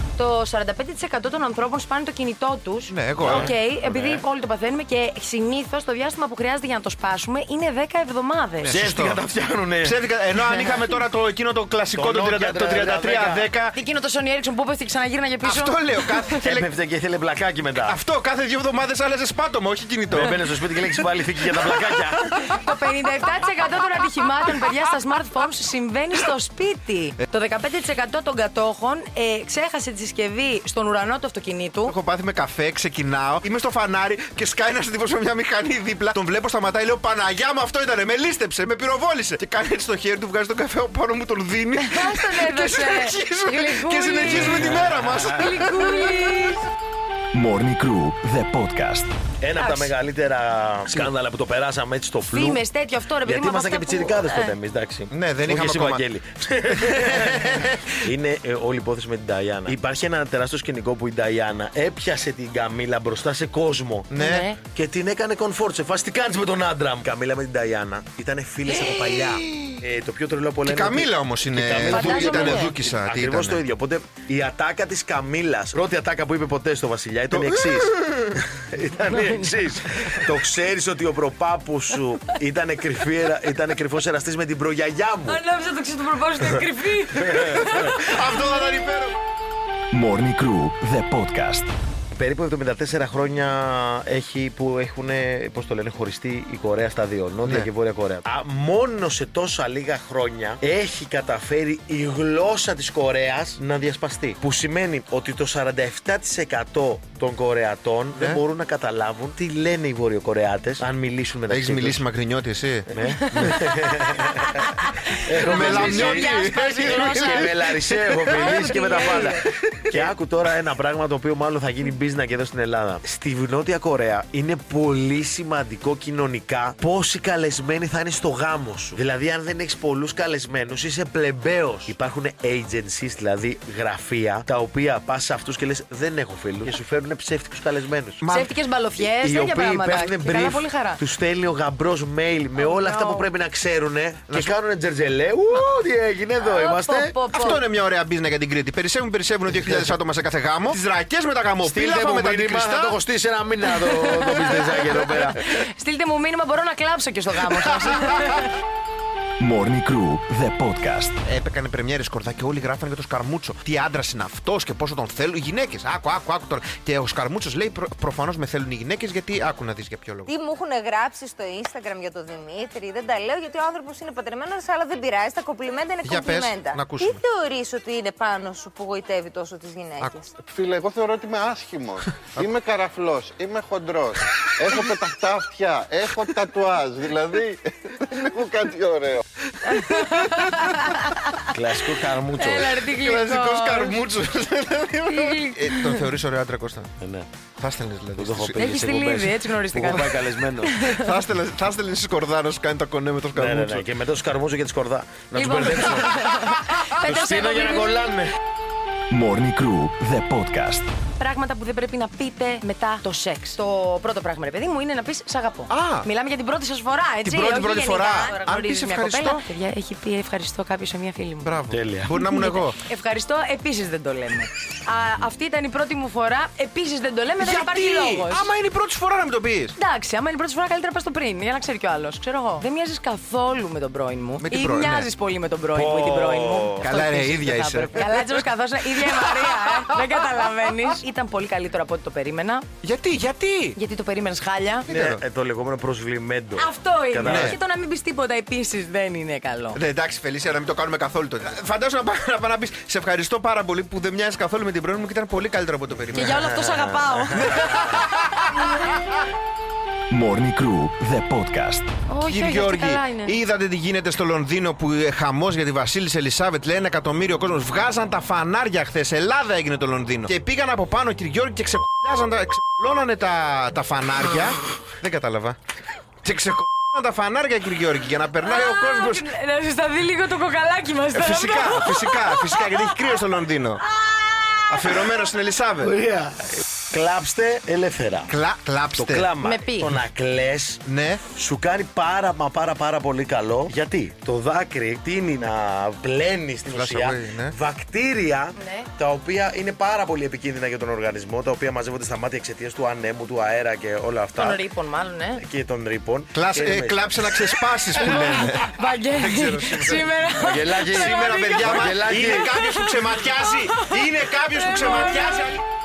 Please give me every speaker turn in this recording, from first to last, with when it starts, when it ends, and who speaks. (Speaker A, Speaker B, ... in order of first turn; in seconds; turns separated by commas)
Speaker A: 0.2-8.8, Speaker B: 2.9-3.5, Speaker C: 3.2-4.2, Speaker B: 8.6-9.2, Speaker C: 8.7-10.0, Speaker B: 9.8-13.8, Speaker A: 10.3-10.9, Speaker C: 11.9-13.5, Speaker A: 13.7-16.4, Speaker B: 15.4-16.7, Speaker C: 16.4-18.0, Speaker B: 17.8-20.3, Speaker C: 20.1-22.4, Speaker A: 22.5-31.9, Speaker B: 31.9-46.4, Speaker A: 41.8-46.7, Speaker C: 44.2-45.4, Speaker D: 47.3-49.1, Speaker C: 49.4-52.6, Speaker A: 49.6-49.9, Speaker A: 52.3-54.5, Speaker C: 53.2-64.1, Speaker B: 55.1-56.0, Speaker B: 56.7-58.0, Speaker B: 64.1-64.5, Speaker A: 64.2-64.6, Speaker C: 64.7-85.4, Speaker B: 68.8-69.8, Speaker B: 70.7-73.6, Speaker A: 71.9-72.7, Speaker B: 77.3-78.4, Speaker A: 79.2-79.5, Speaker A: 85.3-88.2, Speaker C: 87.2-87.9, Speaker B: 88.0-89.2, Speaker D: 89.9-91.7, Speaker C: 92.1-112.0, Speaker B: 108.2-108.4, Speaker B: 111.5-113.7, Speaker C: 112.9-114.6, Speaker A: 113.3-117.7, Speaker C: 115.2-138.2, Speaker B: 115.5-118.6, Speaker A: 118.3-119.4, Speaker B: 119.4-120.1, Speaker B: 138.2-138.5, Speaker A: 138.3-141.0, Speaker C: 139.0-147.5, Speaker A: 142.6-143.3, Speaker A: 146.4-147.6, Speaker B: 147.3-153.0, Speaker C: 149.5-149.9, Speaker C: 151.6-155.4, Speaker A: 153.7-158.5, Speaker D: 159.4-161.2, Speaker B: 161.2-170.3, Speaker E: 170.3-180.3, Speaker B: 176.1-177.2, Speaker F: 180.4-189.2, Speaker A: 189.7-191.4, Speaker B: 189.8-190.2, Speaker C: 191.5-192.9, Speaker A: 192.4-194.0, Speaker B: 192.9-196.9, Speaker A: 195.1-196.1, Speaker C: 197.0-197.3, Speaker B: 197.6-198.7, Speaker C: 198.2-201.0, Speaker A: 198.6-201.1, Speaker B: 200.9-203.9, Speaker C: 203.3-206.2, Speaker A: 205.3-208.0, Speaker C: 207.0-208.3, Speaker D: 209.1-210.9, Speaker A: 211.2-221.5, Speaker B: 215.7-216.1, Speaker B: 217.2-219.4, Speaker B: 221.4-222.8, Speaker C: 221.7-222.2, Speaker A: 222.1-228.5, Speaker B: 227.4-229.8, Speaker A: 229.8-242.7, Speaker B: 234.4-235.1, Speaker C: 235.7-236.9, Speaker B: 236.8-238.4, Speaker B: 242.8-243.8, Speaker A: 243.8-244.9, Speaker B: 244.9-245.2, Speaker C: 244.9-247.6, Speaker A: 246.6-249.8, Speaker B: 247.2-247.6, Speaker B: 249.8-256.4, Speaker A: 256.1-257.5, Speaker C: 256.3-257.7, Speaker B: 257.4-258.9, Speaker D: 260.1-261.9, Speaker A: 262.1-263.4, Speaker B: 262.3-275.6, Speaker B: 276.2-279.3, Speaker A: 278.4-283.3, Speaker B: 281.1-283.8, Speaker A: 284.0-285.0, Speaker B: 284.7-285.9, Speaker C: 285.8-288.3, Speaker B: 288.3-289.3, Speaker C: 288.9-304.6, Speaker A: 289.4-290.0, Speaker B: 290.9-291.2, Speaker B: 296.7-297.6, Speaker A: 298.6-298.9, Speaker A: 304.4-305.4, Speaker C: 305.4-307.5, Speaker B: 306.3-310.3, Speaker A: 308.0-313.9, Speaker C: 310.4-312.6, Speaker B: 311.0-315.6, Speaker A: 314.6-315.4